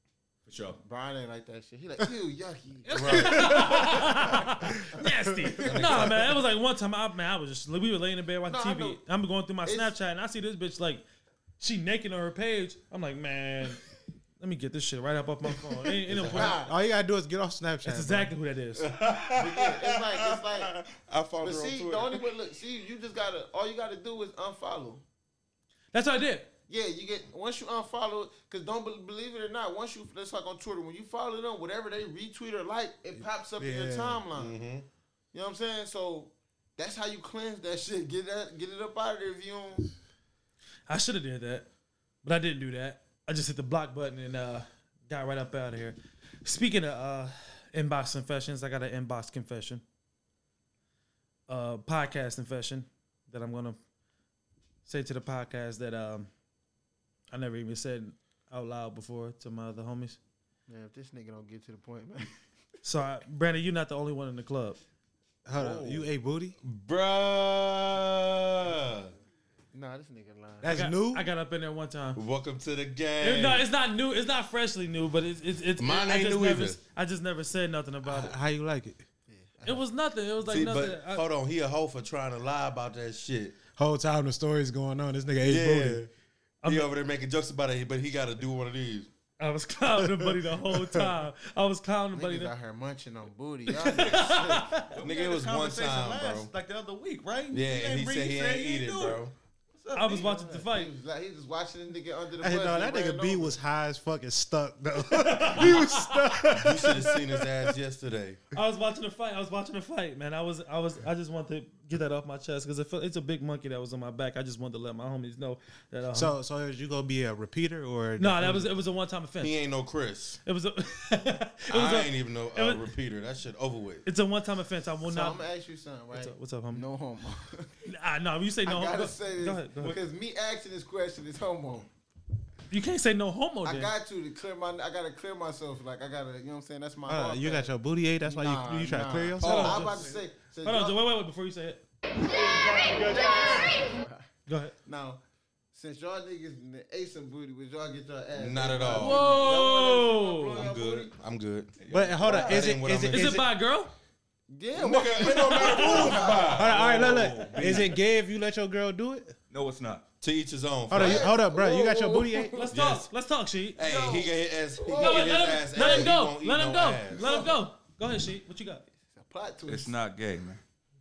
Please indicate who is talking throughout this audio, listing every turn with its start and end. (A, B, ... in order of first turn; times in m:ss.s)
0:00.5-0:00.8 A
0:00.8-0:03.2 B
0:02.9-0:11.0 C
0:02.9-0:03.8 D
0:03.1-0:04.1 E
0:05.6-0:06.4 D
0:08.5-0:09.0 B
0:09.6-0:09.9 B
0:11.6-0:13.8 C
0:14.4-0:16.6 C
0:16.1-0:16.5 D
0:16.3-0:16.7 B
0:16.5-0:18.3 E
0:17.8-0:18.9 C
0:18.8-0:22.2 D
0:19.4-0:20.7 B
0:21.4-0:25.0 B
0:25.9-0:26.5 C
0:26.7-0:34.6 B
0:33.6-0:34.3 E
0:34.3-0:34.9 D
0:35.3-0:39.9 B
0:40.9-0:41.7 C
0:42.2-0:49.8 C
0:51.5-0:53.8 C
0:54.8-0:56.3 C
0:57.3-1:00.2 C
1:00.7-1:02.3 B
1:02.8-1:04.8 C
1:05.5-1:06.6 E
1:05.6-1:06.1 D
1:06.6-1:09.1 D
1:09.7-1:10.7 B
1:10.6-1:11.2 E
1:10.7-1:12.2 C
1:12.2-1:13.7 D
1:13.2-1:18.4 C
1:15.8-1:16.8 D
1:18.1-1:19.0 E
1:19.3-1:19.8 B
1:19.7-1:21.2 C
1:20.4-1:23.6 D
1:23.8-1:26.0 E
1:25.4-1:26.1 D
1:26.6-1:26.9 C
1:26.6-1:29.1 D
1:29.4-1:32.5 C
1:30.0-1:31.1 E
1:32.1-1:34.8 B
1:33.7-1:34.9 C
1:34.9-1:39.2 A
1:35.0-1:36.5 D
1:37.5-1:39.3 D
1:39.8-1:40.4 A
1:39.9-1:40.9 C
1:40.2-1:43.6 B
1:42.4-1:47.5 E
1:45.1-1:46.2 C
1:46.5-1:48.4 D
1:48.6-1:56.3 C
1:56.1-1:58.7 E
1:58.2-1:59.6 C
1:59.4-2:00.4 D
2:00.4-2:02.9 C
2:01.7-2:04.0 D
2:04.1-2:05.4 C
2:05.0-2:07.7 B
2:06.1-2:06.8 C
2:07.9-2:10.0 C
2:08.6-2:11.9 B
2:12.7-2:13.9 C
2:13.6-2:21.0 B
2:17.1-2:19.7 E
2:19.4-2:20.0 D
2:19.4-2:20.1 C
2:20.6-2:21.8 C
2:22.3-2:24.3 B
2:24.5-2:24.8 C
2:24.8-2:25.2 B
2:25.7-2:31.1 B
2:28.4-2:29.3 D
2:28.9-2:30.6 C
2:30.5-2:33.4 D
2:31.8-2:32.6 A
2:31.9-2:33.5 E
2:32.3-2:32.6 B
2:33.0-2:33.9 C
2:34.5-2:36.6 B
2:34.7-2:36.8 D
2:35.2-2:36.2 C
2:36.5-2:39.4 E
2:36.6-2:38.0 A
2:39.5-2:40.1 A
2:40.2-2:41.3 D
2:40.9-2:42.6 E
2:40.9-2:42.5 B
2:42.5-2:44.1 C
2:42.7-2:43.1 D
2:43.8-2:47.4 D
2:43.8-2:46.1 B
2:45.0-2:48.9 C
2:47.2-2:47.6 B
2:49.1-2:50.0 B
2:49.7-2:50.6 A